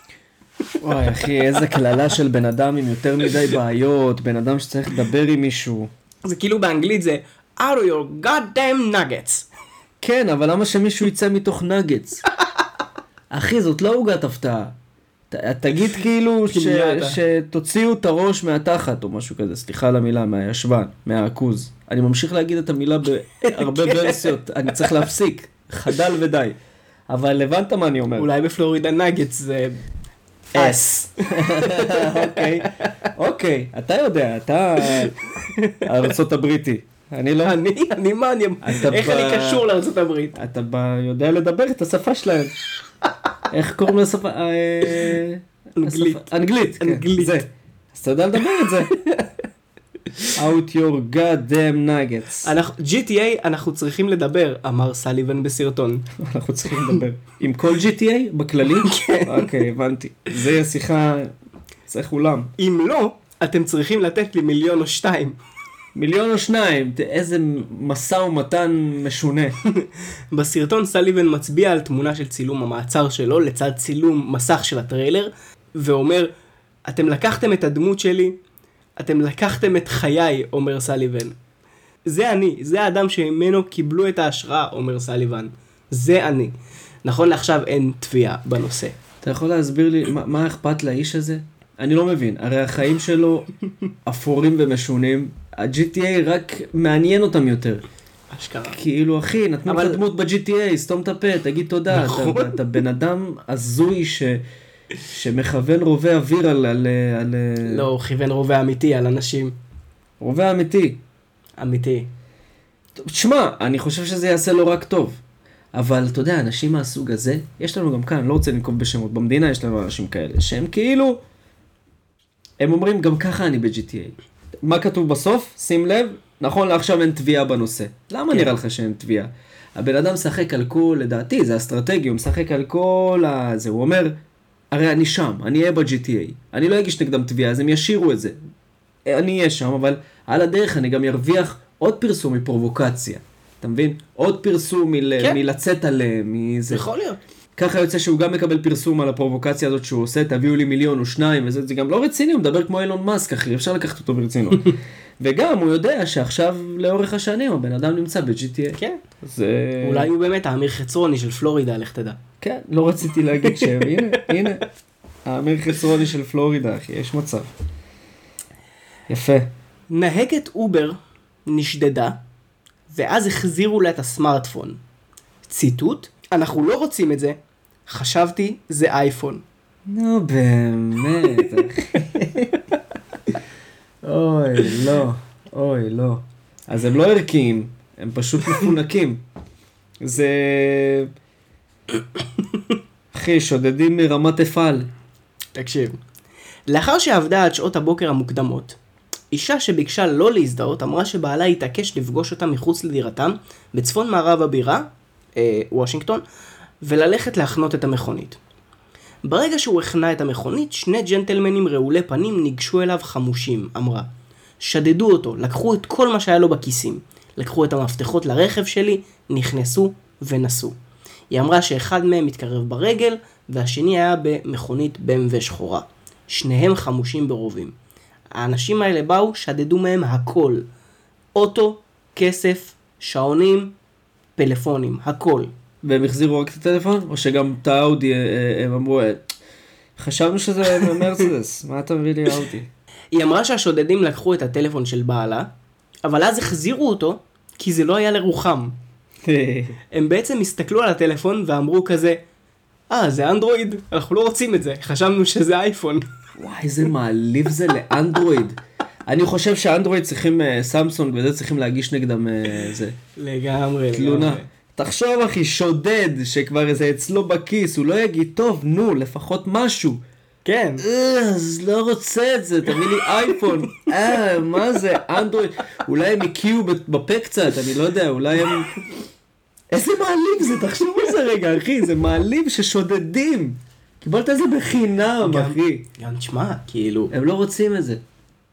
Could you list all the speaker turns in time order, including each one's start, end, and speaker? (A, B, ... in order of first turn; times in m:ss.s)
0:00.8-0:05.9 A
0:06.2-0:09.5 B
0:10.0-0:12.3 A
0:13.3-0:14.8 A
0:15.3-0:26.6 A
0:16.5-0:17.2 B
0:23.5-0:24.4 B
0:27.1-0:28.3 A
0:28.2-0:29.8 B
0:30.5-0:35.2 A
0:30.6-0:32.9 B
0:34.8-0:35.9 B
0:35.8-0:37.6 A
0:37.4-0:40.4 B
0:38.6-0:39.7 A
0:40.4-0:42.6 A
0:43.5-0:49.0 A
0:45.8-0:47.4 B
0:48.9-0:49.3 B
0:50.3-0:52.5 A
0:52.4-0:56.1 B
0:56.2-1:01.3 A
0:58.8-0:59.5 B
1:01.9-1:02.5 A
1:02.6-1:05.4 B
1:06.0-1:09.6 A
1:09.7-1:16.3 B
1:16.9-1:18.4 B
1:19.0-1:21.4 B
1:22.1-1:26.5 B
1:27.0-1:29.0 B
1:29.2-1:33.5 A
1:34.1-1:37.8 A
1:38.3-1:38.8 B
1:38.7-1:44.4 A
1:39.7-1:40.0 B
1:41.9-1:42.6 B
1:45.0-1:47.9 A
1:47.6-1:49.6 B
1:50.2-1:51.0 A
1:51.6-1:52.1 B
1:53.0-1:55.2 A
1:55.7-2:01.2 A
2:02.6-2:14.2 A
2:14.7-2:18.4 A
2:19.1-2:26.9 A
2:26.7-2:27.2 B
2:27.6-2:40.1 A
2:38.8-2:39.0 B
2:39.8-2:42.2 B
2:42.4-2:44.7 A
2:43.5-2:44.3 B
2:45.3-2:47.5 A
2:49.1-2:49.5 A
2:49.9-2:52.2 B
2:52.9-2:54.8 B
2:55.5-2:59.4 B
2:59.9-3:02.6 A
3:04.0-3:09.2 A
3:10.0-3:11.1 A
3:13.1-3:14.9 A
3:15.6-3:16.0 B
3:16.7-3:18.8 B
3:19.3-3:26.2 B
3:26.8-3:28.4 B
3:29.2-3:34.1 B
3:34.6-3:40.8 B
3:41.3-3:47.7 B
3:48.3-3:50.6 B
3:51.4-3:53.7 B
3:54.4-3:55.5 B
3:55.8-3:59.3 A
4:00.0-4:02.7 A
4:00.8-4:01.1 B
4:03.1-4:05.5 B
4:06.0-4:08.8 B
4:09.2-4:09.8 A
4:09.9-4:12.2 B
4:12.9-4:16.1 B
4:16.4-4:23.0 A
4:23.2-4:24.5 B
4:23.9-4:30.0 A
4:30.4-4:30.8 B
4:30.8-4:38.8 A
4:39.7-4:45.9 A
4:45.2-4:47.1 B
4:47.1-4:48.0 A